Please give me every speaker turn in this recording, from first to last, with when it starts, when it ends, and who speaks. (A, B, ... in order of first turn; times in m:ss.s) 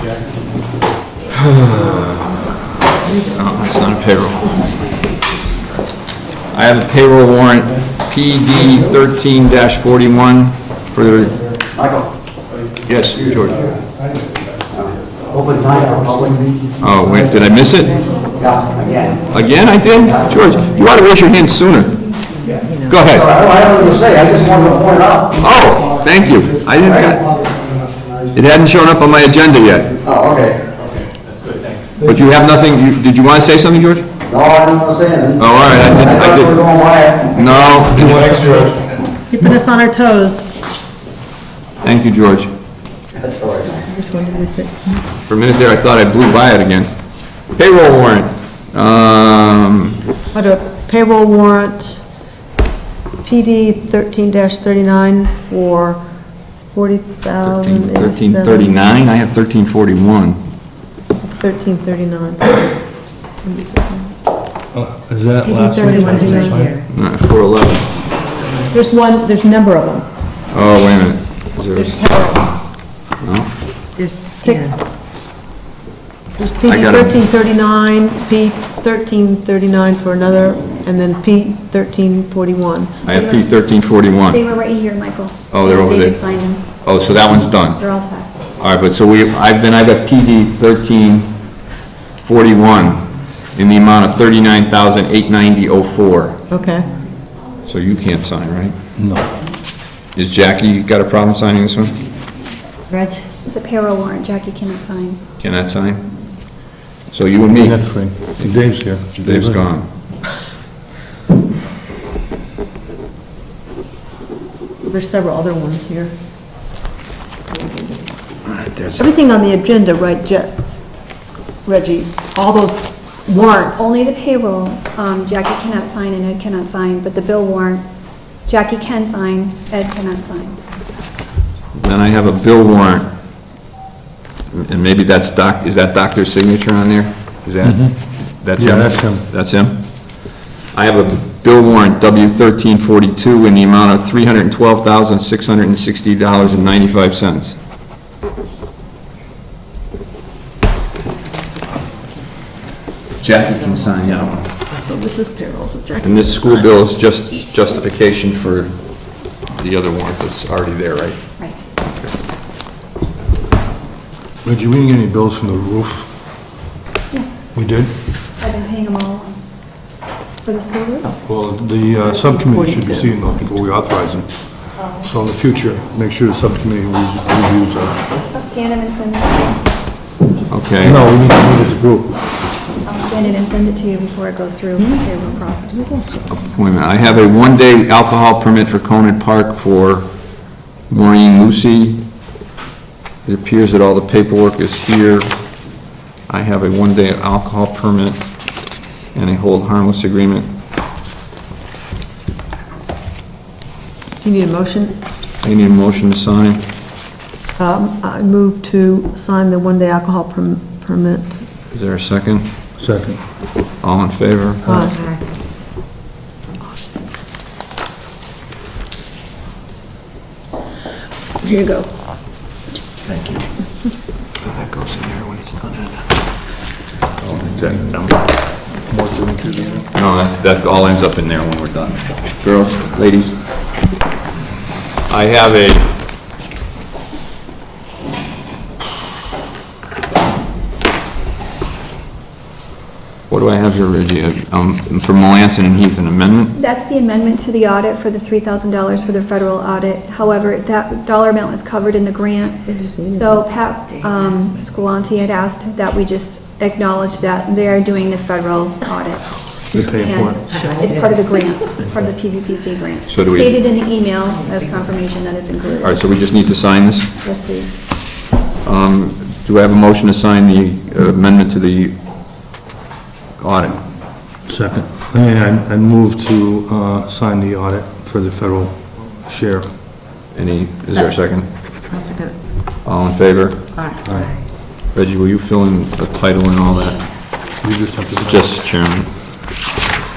0:01.4-0:02.2 A
0:03.2-0:04.8 A
0:06.5-0:11.4 A
0:11.8-0:12.0 B
0:12.9-0:13.7 A
0:15.3-0:16.5 B
0:16.8-0:18.0 A
0:18.4-0:19.3 B
0:19.2-0:22.0 A
0:20.0-0:20.6 B
0:22.6-0:23.1 C
0:22.8-0:23.3 A
0:23.2-0:25.4 B
0:25.4-0:27.3 A
0:28.3-0:29.9 A
0:30.0-0:30.6 B
0:32.0-0:34.1 A
0:34.2-0:37.4 B
0:35.4-0:36.6 A
0:37.3-0:38.8 A
0:37.9-0:38.8 D
0:39.3-0:40.5 E
0:41.8-0:42.5 A
0:43.2-0:43.7 B
0:43.8-0:45.2 E
0:45.3-0:46.9 A
0:47.6-0:50.0 A
0:50.3-0:52.0 E
0:53.2-0:56.0 E
0:56.7-0:58.7 E
0:57.4-1:00.4 A
1:01.4-1:02.6 E
1:03.4-1:04.1 E
1:04.7-1:06.8 D
1:05.4-1:06.7 E
1:05.7-1:06.9 C
1:06.9-1:07.9 A
1:08.0-1:08.7 C
1:08.7-1:10.0 E
1:10.5-1:12.0 A
1:11.7-1:12.5 E
1:13.2-1:13.5 A
1:14.0-1:14.7 C
1:14.4-1:14.7 E
1:16.4-1:23.0 E
1:16.6-1:17.2 A
1:23.0-1:23.6 F
1:23.0-1:24.4 A
1:24.3-1:26.7 F
1:25.5-1:26.2 A
1:26.8-1:27.8 A
1:27.8-1:28.3 F
1:28.6-1:31.4 A
1:32.2-1:36.4 A
1:36.5-1:36.9 E
1:37.6-1:38.7 A
1:39.0-1:39.3 D
1:40.2-1:42.0 A
1:42.9-1:43.3 C
1:43.4-1:45.2 F
1:45.4-1:46.1 A
1:47.1-1:47.8 A
1:47.5-1:49.7 D
1:49.2-1:49.8 A
1:54.8-1:56.1 E
1:58.5-1:59.0 A
1:58.9-2:00.6 E
2:01.6-2:03.9 E
2:03.8-2:07.8 F
2:08.4-2:10.6 F
2:11.7-2:13.1 A
2:14.5-2:27.6 A
2:17.6-2:19.2 D
2:33.2-2:34.5 A
2:34.8-2:36.4 E
2:36.0-2:38.8 A
2:39.5-2:41.2 A
2:44.4-2:46.2 D
2:47.5-2:48.0 D
2:48.4-2:49.4 F
2:50.4-2:51.1 F
2:51.2-2:58.1 D
2:52.0-2:53.2 E
2:58.3-2:59.6 F
3:00.5-3:01.0 A
3:00.8-3:02.2 D
3:02.8-3:05.8 F
3:04.8-3:06.3 E
3:06.3-3:10.1 A
3:10.9-3:12.0 A
3:13.2-3:15.3 A
3:16.3-3:18.2 A
3:19.1-3:20.5 A
3:24.2-3:25.0 E
3:25.4-3:26.6 A
3:27.6-3:31.4 E
3:31.7-3:32.5 A
3:32.8-3:33.2 D
3:33.8-3:34.7 A
3:34.6-3:35.0 E
3:34.7-3:35.2 C
3:41.4-3:41.8 E
3:43.1-3:43.4 A
3:44.4-3:46.0 A
3:47.2-3:48.2 A
3:48.8-3:49.8 D
3:49.9-3:53.3 A
3:55.1-3:55.9 A
4:03.3-4:06.5 A
4:06.5-4:26.0 F
4:12.7-4:13.4 E
4:19.7-4:20.7 D
4:20.5-4:20.8 C
4:23.1-4:23.6 A
4:25.8-4:27.1 A
4:27.2-4:27.8 F
4:28.6-4:32.0 A
4:33.4-4:33.8 A
4:34.4-4:39.8 D
4:40.3-4:41.5 A
4:41.9-4:42.3 E
4:42.8-4:43.6 A
4:43.7-4:44.4 C
4:44.0-4:44.3 D
4:44.9-4:47.0 A
4:47.6-4:48.5 D
4:48.2-4:49.1 A